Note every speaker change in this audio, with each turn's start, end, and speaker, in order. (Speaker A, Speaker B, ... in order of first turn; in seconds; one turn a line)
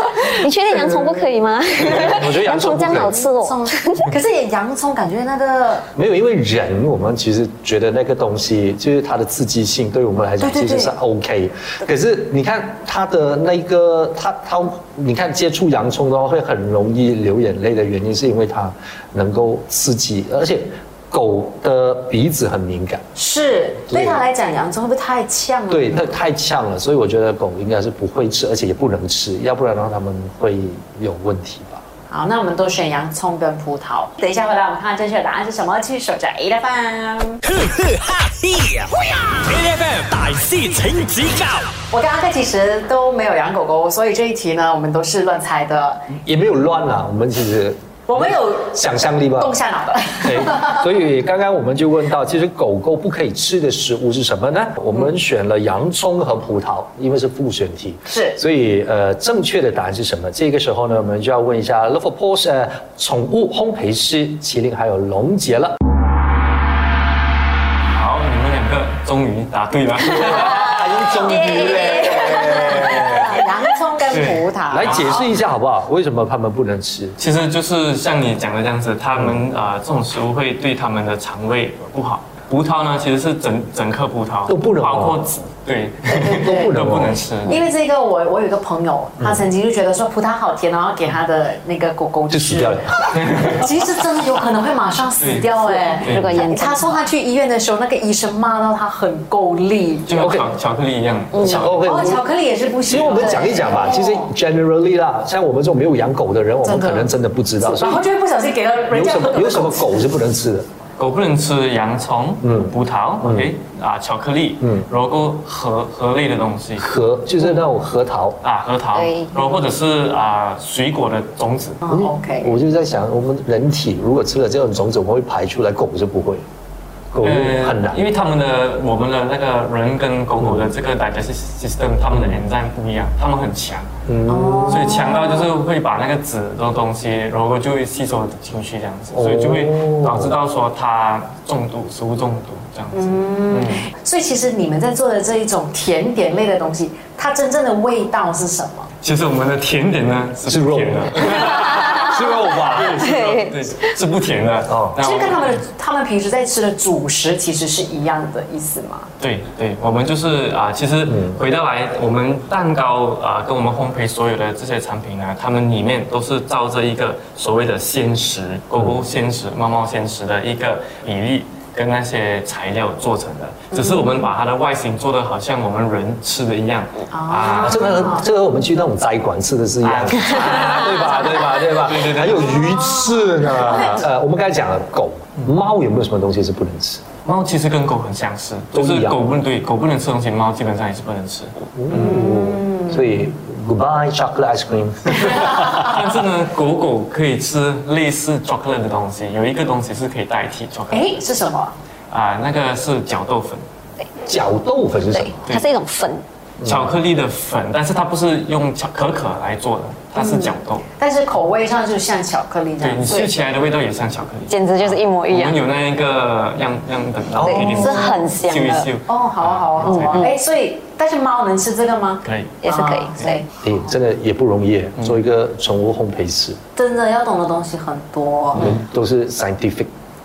Speaker A: 0.2-4.1
Speaker B: 1.8-3.2
Speaker C: 3.0-5.9
Speaker B: 6.0-23.0
Speaker C: 10.4-10.9
Speaker C: 23.2-26.0
Speaker B: 23.9-24.2
Speaker B: 25.7-31.8
Speaker C: 32.1-37.4
Speaker D: 37.4-41.7
Speaker C: 41.9-46.1
Speaker B: 46.2-49.5
Speaker C: 48.1-50.7
Speaker B: 50.2-65.7
Speaker C: 58.1-58.4
Speaker E: 67.9-70.8
Speaker A: 70.2-73.5
Speaker B: 70.4-73.4
Speaker C: 72.3-75.2
Speaker E: 74.1-75.3
Speaker B: 74.7-77.2
Speaker E: 77.2-87.7
Speaker B: 84.5-85.2
Speaker B: 86.2-87.2
Speaker C: 86.2-86.8
Speaker C: 87.5-100.4
Speaker B: 92.3-93.3
Speaker E: 93.1-93.7
Speaker E: 95.2-96.3
Speaker A: 95.6-97.0
Speaker E: 100.1-101.8
Speaker B: 100.2-100.5
Speaker A: 101.3-101.6
Speaker B: 101.4-102.2
Speaker C: 101.8-104.3
Speaker E: 102.9-103.5
Speaker B: 102.9-108.0
Speaker C: 106.6-109.8
Speaker B: 108.9-110.7
Speaker E: 111.0-116.9
Speaker B: 112.4-113.5
Speaker B: 116.8-118.4
Speaker E: 118.4-121.8
Speaker A: 118.9-119.4
Speaker C: 121.8-122.5
Speaker B: 121.9-126.4
Speaker B: 127.1-128.1
Speaker E: 127.2-133.9
Speaker B: 132.1-132.4
Speaker B: 134.1-135.0
Speaker C: 134.3-135.5
Speaker E: 134.7-143.9
Speaker B: 139.1-140.4
Speaker C: 142.9-148.9
Speaker E: 149.0-155.6
Speaker B: 150.5-153.1
Speaker A: 151.6-153.9
Speaker B: 154.7-155.0
Speaker C: 155.0-159.1
Speaker E: 159.2-178.1
Speaker B: 161.1-161.4
Speaker C: 173.7-174.2
Speaker C: 177.1-178.2
Speaker B: 177.6-187.1
Speaker E: 179.8-182.8
Speaker C: 183.3-183.9
Speaker E: 187.2-192.2
Speaker B: 188.7-189.2
Speaker B: 191.8-195.8
Speaker C: 191.9-193.0
Speaker E: 195.7-201.2
Speaker C: 200.9-201.7
Speaker E: 202.1-203.6
Speaker B: 204.2-205.4
Speaker A: 205.1-206.2
Speaker E: 206.6-210.8
Speaker B: 206.6-206.9
Speaker C: 210.2-213.3
Speaker E: 212.8-220.3
Speaker A: 214.5-215.6
Speaker B: 217.4-217.8
Speaker A: 217.4-218.9
Speaker C: 217.6-218.1
Speaker C: 219.1-223.5
Speaker E: 222.2-222.6
Speaker A: 222.6-223.4
Speaker B: 223.6-226.6
Speaker C: 226.8-228.7
Speaker B: 228.6-229.9